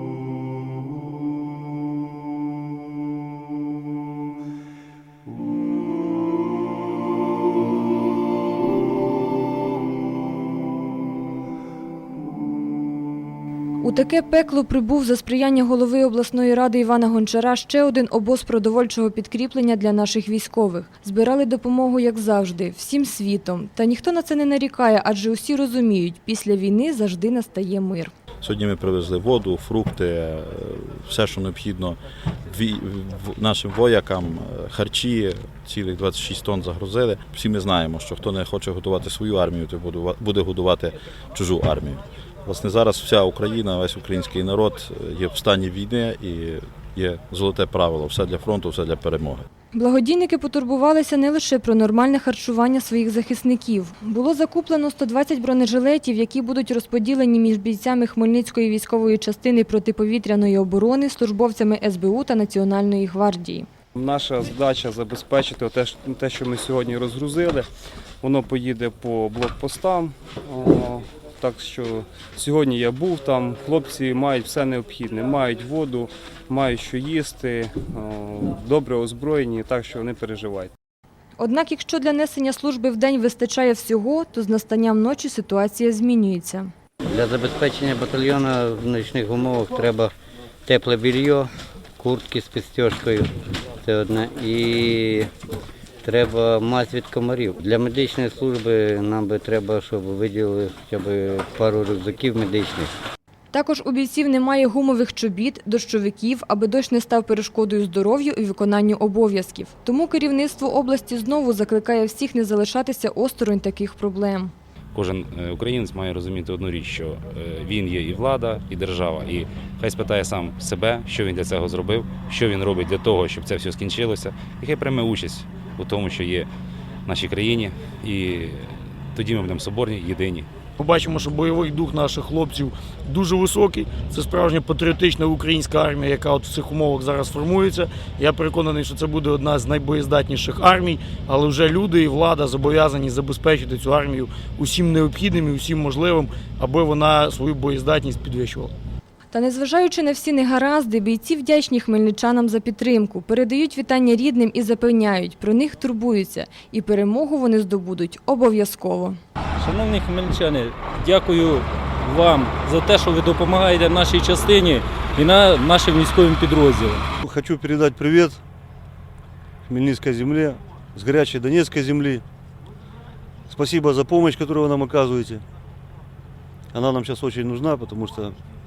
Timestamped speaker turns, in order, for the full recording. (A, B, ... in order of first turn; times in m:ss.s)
0:13.8-0:28.1 A
0:28.4-0:49.5 B
0:49.7-1:03.7 A
1:04.0-1:07.7 C
1:08.2-1:20.7 C
1:21.4-1:26.7 A
1:27.1-1:30.1 D
1:30.7-1:33.3 D
1:33.8-1:35.3 D
1:36.0-1:42.9 D
1:43.5-1:54.5 A
1:54.9-2:06.5 E
2:07.1-2:10.5 E
2:10.8-2:28.7 F
2:29.3-2:39.2 A
2:39.6-2:47.0 G
2:47.2-2:48.4 H
2:49.7-2:52.2 H
2:53.5-2:55.4 H
2:56.7-2:58.4 H